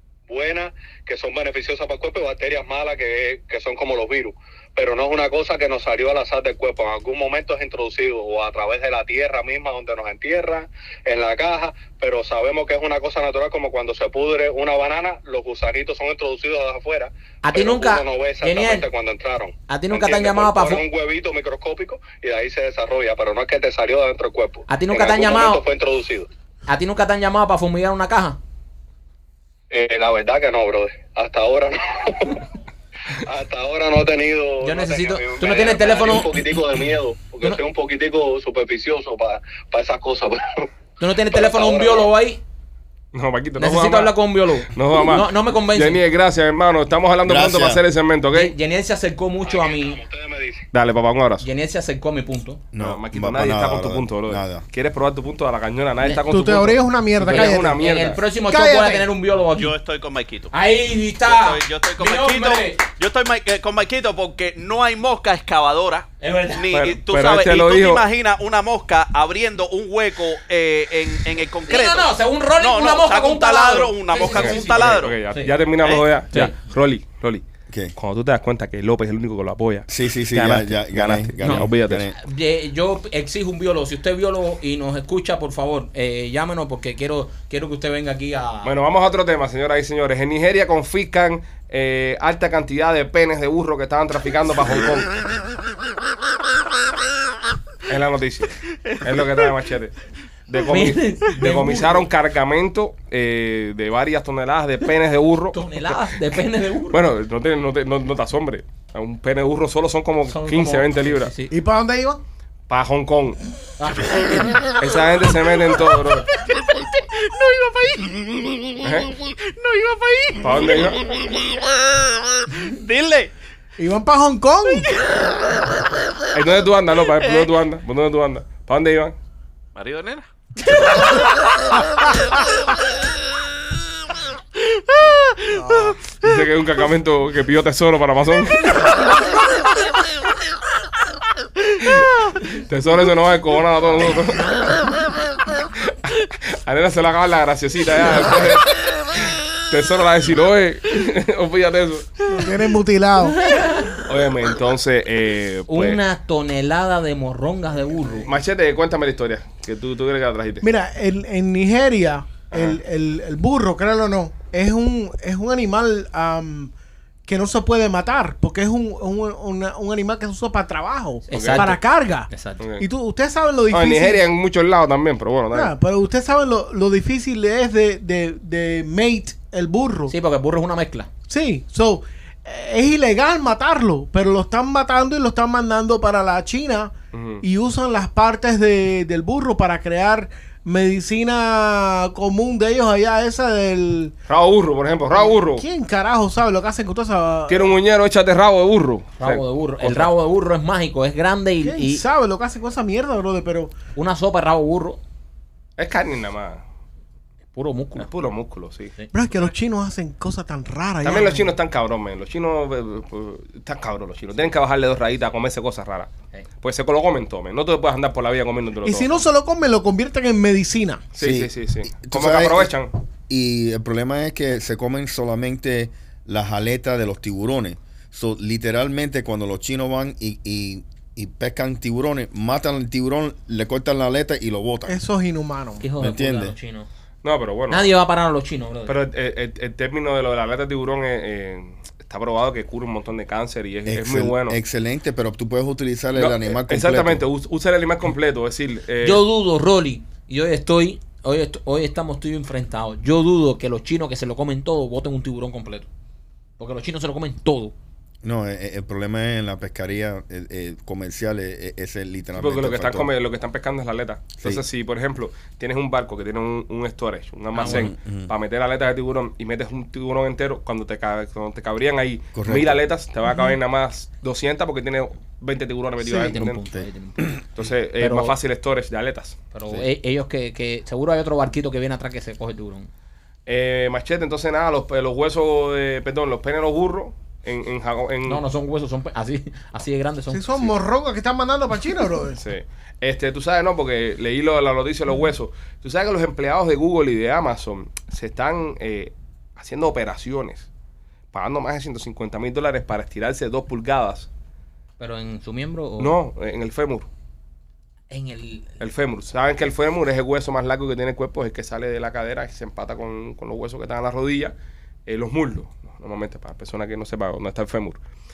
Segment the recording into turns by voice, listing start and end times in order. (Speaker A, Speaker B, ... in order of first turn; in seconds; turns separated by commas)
Speaker A: 0.3-26.3, Speaker B: 17.4-18.9, Speaker B: 19.7-20.8, Speaker B: 24.7-25.6, Speaker B: 26.7-28.4, Speaker A: 29.7-32.4, Speaker A: 33.2-40.7, Speaker B: 34.6-36.8, Speaker B: 41.0-42.4, Speaker A: 41.3-42.1, Speaker C: 43.1-44.1, Speaker B: 43.6-46.0, Speaker C: 44.7-48.5, Speaker D: 47.2-47.8, Speaker B: 48.3-50.0, Speaker A: 49.4-50.6, Speaker C: 50.7-51.4, Speaker B: 51.4-52.6, Speaker D: 52.7-54.6, Speaker C: 52.8-58.2, Speaker E: 56.3-57.8, Speaker B: 57.2-59.7, Speaker E: 58.5-59.1, Speaker F: 59.5-60.5, Speaker B: 60.5-62.8, Speaker F: 61.2-75.2, Speaker B: 66.2-66.7, Speaker C: 66.7-68.0, Speaker B: 71.7-75.5, Speaker C: 74.2-82.1, Speaker F: 75.8-76.0, Speaker B: 76.3-76.5, Speaker D: 77.7-77.9, Speaker D: 79.9-82.2, Speaker B: 81.4-88.7, Speaker C: 88.6-95.2, Speaker C: 97.9-100.0, Speaker C: 100.5-106.1, Speaker B: 100.6-102.1, Speaker B: 105.5-107.0, Speaker C: 106.9-111.3, Speaker B: 110.3-111.5, Speaker E: 111.5-112.2, Speaker C: 112.7-113.4, Speaker B: 113.8-114.7, Speaker C: 114.8-116.3, Speaker F: 116.7-121.4, Speaker C: 118.8-119.1, Speaker C: 120.4-121.0, Speaker F: 122.5-123.3, Speaker E: 123.8-124.9, Speaker C: 126.3-129.2, Speaker F: 129.7-130.2, Speaker F: 134.9-135.9, Speaker E: 135.5-136.0, Speaker C: 136.2-138.8, Speaker C: 141.8-144.9, Speaker C: 146.0-152.3, Speaker E: 152.3-153.4, Speaker B: 153.4-154.0, Speaker C: 154.1-156.0, Speaker B: 155.7-158.3, Speaker C: 158.2-160.7, Speaker E: 160.6-166.7, Speaker C: 162.5-162.8, Speaker E: 167.2-174.2, Speaker B: 171.3-172.6, Speaker C: 171.3-171.7, Speaker C: 172.6-172.9, Speaker C: 173.7-175.7, Speaker E: 175.5-180.1, Speaker B: 180.1-181.1, Speaker E: 181.3-194.1, Speaker C: 187.1-187.4, Speaker C: 194.3-195.6, Speaker E: 195.1-197.8, Speaker C: 197.5-200.1, Speaker B: 199.2-202.0, Speaker E: 201.6-203.7, Speaker B: 203.9-205.0, Speaker C: 205.8-206.6, Speaker B: 207.5-208.1, Speaker C: 208.0-208.9, Speaker E: 209.1-211.5, Speaker C: 211.0-219.2, Speaker E: 218.8-221.1, Speaker C: 221.1-222.9, Speaker D: 221.2-222.7, Speaker D: 223.3-235.0, Speaker E: 234.8-235.8, Speaker B: 235.8-236.9, Speaker D: 236.0-236.5, Speaker C: 237.2-237.9, Speaker B: 237.7-239.0, Speaker C: 238.8-244.6, Speaker D: 243.8-247.2, Speaker C: 246.2-249.2, Speaker B: 249.0-255.9, Speaker B: 256.6-257.7, Speaker D: 258.2-263.1, Speaker C: 262.3-276.6, Speaker B: 267.5-267.9, Speaker D: 267.6-268.3, Speaker D: 272.3-272.8, Speaker B: 276.0-277.4, Speaker D: 276.5-277.4, Speaker C: 277.6-279.4, Speaker B: 278.0-278.4, Speaker B: 279.5-282.9, Speaker C: 283.4-288.4, Speaker B: 288.2-290.6, Speaker E: 290.3-292.4, Speaker C: 292.4-300.7, Speaker C: 301.3-304.3, Speaker B: 305.0-306.2, Speaker C: 306.0-307.1, Speaker B: 308.1-308.8, Speaker C: 308.8-314.5, Speaker C: 315.1-318.0